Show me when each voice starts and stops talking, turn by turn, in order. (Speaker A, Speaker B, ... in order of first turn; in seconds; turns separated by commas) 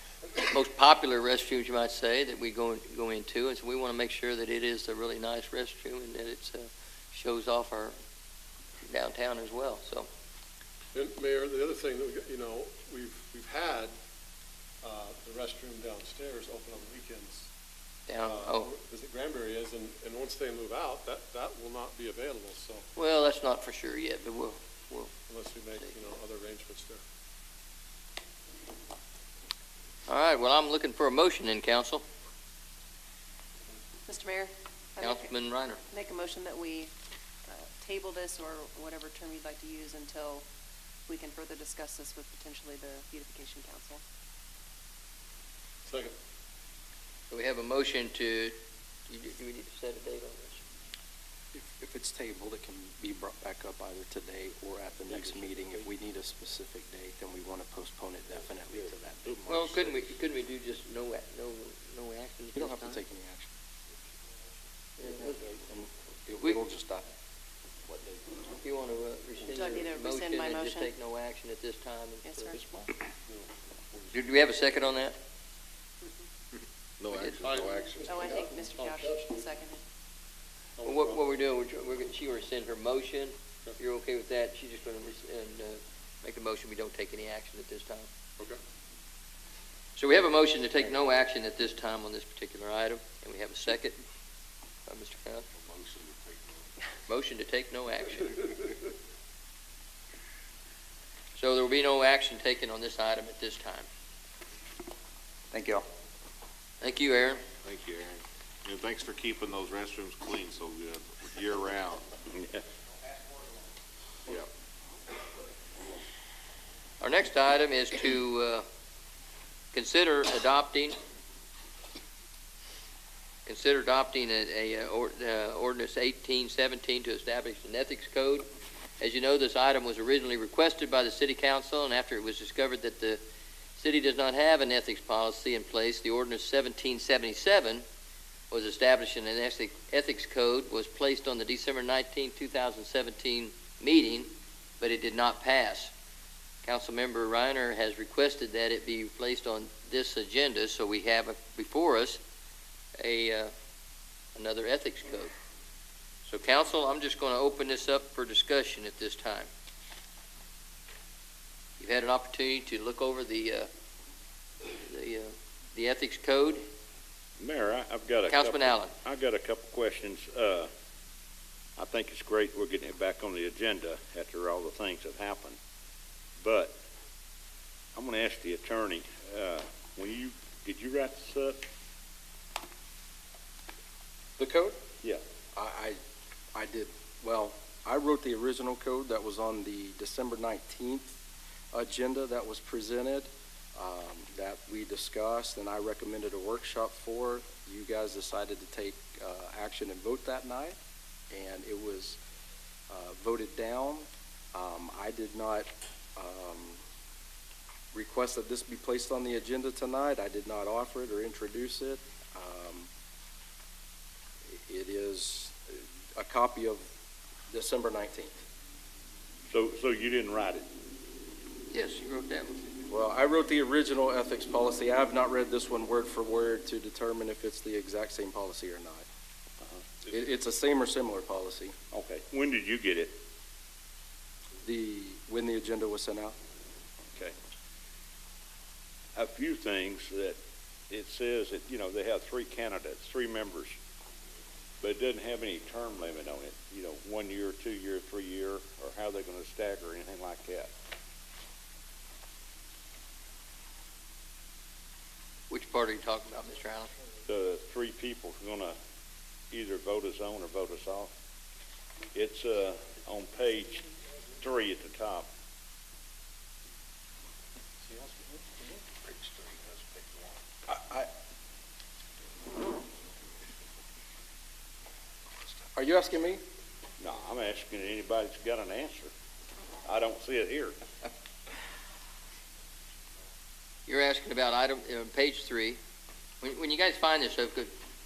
Speaker A: 0.4-8.0, Speaker A: 8.9-10.1, Speaker B: 10.9-13.9, Speaker B: 14.8-17.5, Speaker A: 18.1-18.7, Speaker B: 18.2-22.9, Speaker A: 23.0-25.1, Speaker B: 25.3-27.0, Speaker A: 30.1-32.0, Speaker C: 34.1-35.3, Speaker A: 35.0-35.8, Speaker C: 35.9-36.9, Speaker C: 37.5-40.5, Speaker C: 41.1-44.0, Speaker B: 45.9-46.1, Speaker A: 47.3-48.5, Speaker A: 49.1-50.6, Speaker D: 51.5-59.9, Speaker A: 59.5-63.0, Speaker D: 62.6-63.5, Speaker A: 65.0-65.4, Speaker D: 65.0-67.1, Speaker A: 68.6-72.5, Speaker C: 69.5-70.9, Speaker C: 72.3-72.6, Speaker B: 73.3-74.2, Speaker A: 74.1-75.2, Speaker E: 77.0-78.5, Speaker B: 77.4-79.3, Speaker C: 78.0-79.8, Speaker B: 80.8-81.2, Speaker A: 80.8-88.1, Speaker A: 90.0-94.0, Speaker A: 94.9-95.5, Speaker E: 95.6-96.4, Speaker A: 97.1-98.4, Speaker A: 101.4-103.9, Speaker A: 106.8-107.4, Speaker E: 107.6-112.1, Speaker F: 112.3-112.6, Speaker A: 117.0-118.7, Speaker A: 119.7-121.0, Speaker A: 123.5-128.5, Speaker A: 129.0-133.2, Speaker A: 133.8-137.8, Speaker A: 138.5-145.9, Speaker A: 146.6-152.2, Speaker A: 153.0-153.5, Speaker A: 154.3-155.3, Speaker A: 156.2-159.5, Speaker A: 161.8-163.7, Speaker A: 164.8-166.6, Speaker F: 167.4-170.7, Speaker A: 168.3-168.9, Speaker F: 171.8-175.6, Speaker F: 176.4-176.8, Speaker F: 177.9-181.6, Speaker D: 184.4-184.8, Speaker D: 185.5-186.0, Speaker D: 186.6-191.2, Speaker D: 191.7-200.8, Speaker D: 201.3-202.2, Speaker D: 202.9-206.8, Speaker D: 207.9-212.9, Speaker D: 214.5-216.8, Speaker D: 217.5-218.4, Speaker F: 219.5-220.7, Speaker A: 221.7-222.6, Speaker D: 222.9-229.1, Speaker D: 230.1-231.8, Speaker F: 231.9-233.2, Speaker D: 234.6-236.3, Speaker F: 239.2-240.4, Speaker F: 240.9-243.8, Speaker F: 244.8-250.7, Speaker A: 255.5-256.9, Speaker F: 257.3-258.8, Speaker F: 259.5-261.1, Speaker F: 262.1-263.9, Speaker F: 264.4-265.3, Speaker B: 267.9-268.2, Speaker E: 269.0-270.0, Speaker D: 270.7-271.1, Speaker D: 275.8-276.4, Speaker F: 277.0-279.1, Speaker F: 279.8-280.8, Speaker A: 283.9-285.8, Speaker A: 286.4-287.7